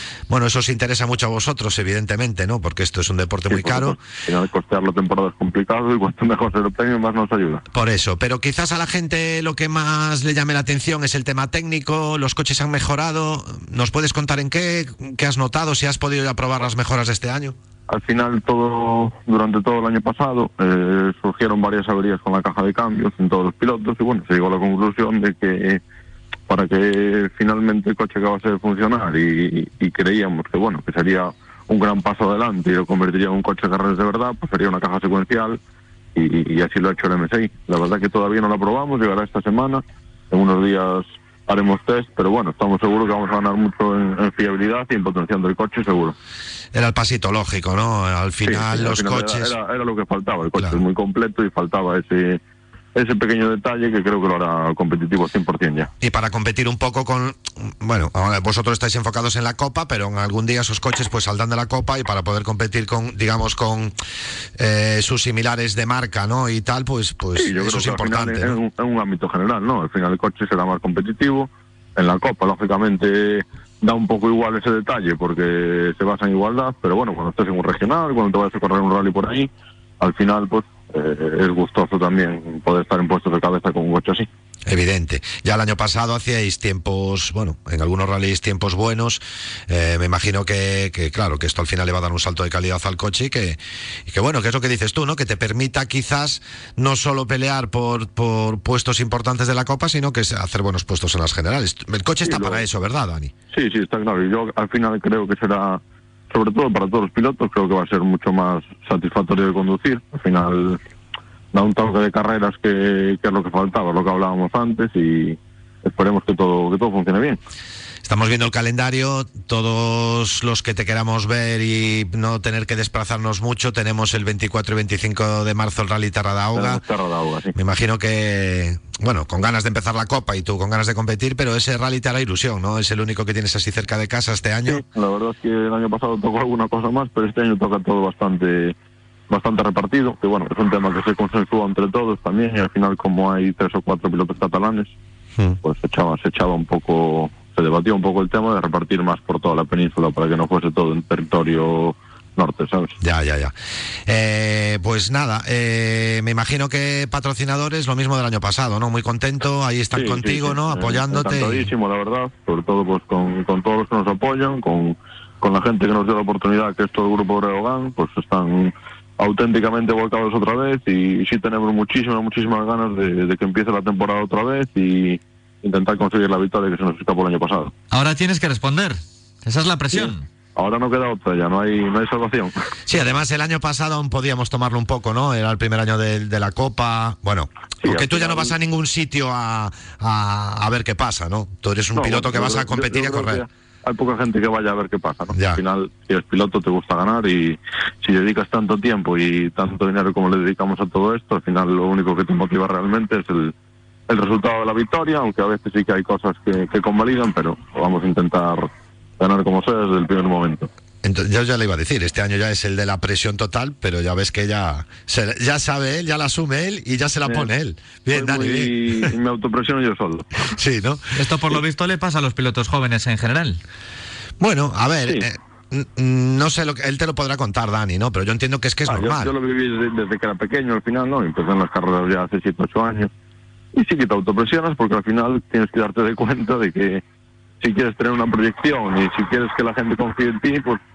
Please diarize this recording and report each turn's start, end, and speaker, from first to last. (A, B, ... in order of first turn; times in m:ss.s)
0:00.3-0:04.0 A
0:03.5-0:07.6 B
0:07.7-0:17.6 A
0:17.9-0:25.8 B
0:26.5-0:35.6 B
0:36.2-0:46.2 B
0:46.7-0:49.5 A
0:48.4-0:52.4 B
0:53.0-0:55.9 B
0:56.0-1:03.9 A
1:04.6-1:08.6 A
1:07.4-1:19.5 B
1:20.0-1:24.3 B
1:24.7-1:43.3 A
1:42.2-1:42.6 B
1:43.5-1:50.8 B
1:51.5-1:57.4 B
1:58.0-2:06.8 A
2:06.5-2:07.5 B
2:07.5-2:14.8 A
2:14.6-2:18.8 B
2:19.3-2:24.9 B
2:25.6-2:33.0 B
2:33.0-2:33.5 A
2:34.1-2:41.7 A
2:39.9-2:57.7 B
2:57.9-3:00.3 C
2:59.9-3:02.5 B
3:02.9-3:13.4 A
3:07.8-3:08.6 B
3:12.0-3:23.5 B
3:15.3-3:15.6 A
3:24.1-3:30.7 B
3:31.0-3:39.1 A
3:37.2-3:37.5 B
3:38.1-3:40.5 B
3:40.5-3:41.2 A
3:41.1-3:43.6 C
3:44.4-3:49.3 A
3:48.9-3:53.1 B
3:53.7-3:57.0 B
3:57.6-4:00.8 B